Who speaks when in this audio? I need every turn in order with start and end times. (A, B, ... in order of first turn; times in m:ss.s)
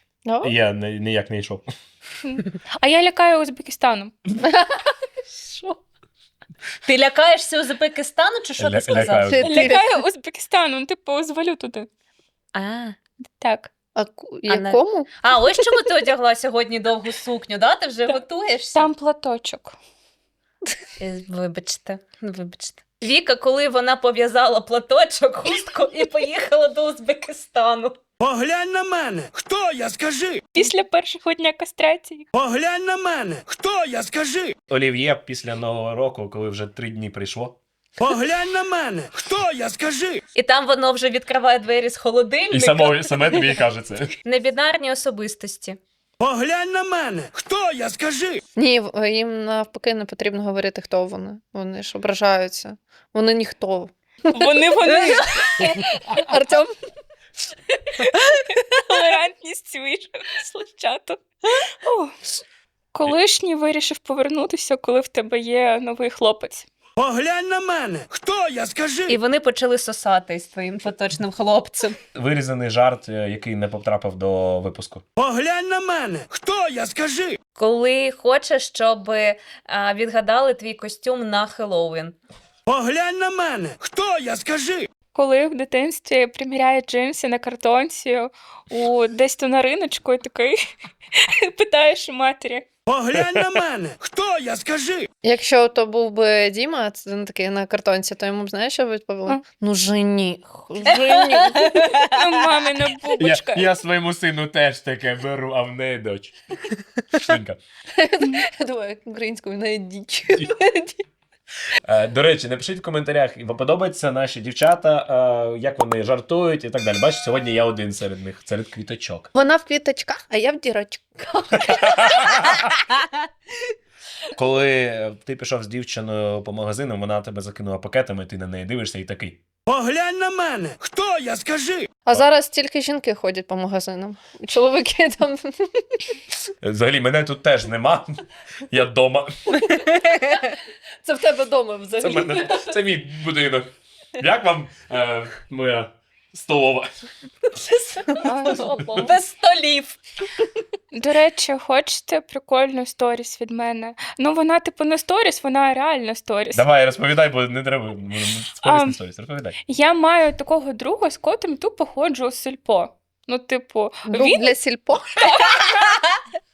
0:00.2-0:00.5 A
0:00.4-0:01.6 B
0:02.2-0:04.1 C
0:04.4-0:04.9 A
0:05.4-0:05.8 D
0:06.8-0:09.6 D
0:08.6-0:09.5 B
0:09.3-0:10.0 A
0:09.4-0:11.9 C
0:12.5-0:13.0 D
0:13.4-0:13.7 C
0:13.9-0:15.2 A
0:14.5-0:18.9 D
0:18.7-0:19.8 C
0:21.0-0:28.0 D
0:28.2-0:30.4 E
0:30.5-0:32.3 C
0:32.3-0:34.5 E
0:34.7-0:37.6 B
0:38.0-0:40.2 E
0:40.3-0:43.4 D
0:42.5-0:44.1 B
0:44.2-0:45.8 D
0:46.2-0:48.4 E
0:48.6-0:54.5 A
0:54.3-0:55.6 C
0:55.6-0:56.7 A
0:57.9-1:01.2 C
1:01.8-1:02.4 C
1:02.9-1:06.7 C
1:07.0-1:09.1 E
1:09.1-1:12.0 D
1:12.1-1:15.0 B
1:15.2-1:17.4 E
1:17.6-1:22.1 D
1:22.7-1:24.9 E
1:25.1-1:30.6 C
1:31.1-1:32.7 C
1:32.9-1:35.1 E
1:33.1-1:33.6 B
1:35.2-1:41.9 A
1:40.9-1:42.0 D
1:41.6-1:43.7 C
1:43.2-1:46.4 B
1:47.1-1:47.6 B
1:48.0-1:51.0 A
1:51.8-1:59.3 B
1:59.3-2:02.7 A
2:01.7-2:02.6 B
2:04.3-2:09.4 B
2:09.7-2:11.9 E
2:12.0-2:16.2 A
2:16.5-2:19.3 B
2:20.4-2:22.8 A
2:22.0-2:27.0 B
2:27.8-2:28.2 D
2:28.2-2:28.9 C
2:28.4-2:29.1 A
2:28.8-2:29.1 B
2:29.0-2:30.0 D
2:30.9-2:36.6 C
2:36.5-2:39.6 B
2:38.4-2:39.0 C
2:39.6-2:44.5 C
2:44.0-2:45.2 A
2:45.2-2:46.1 C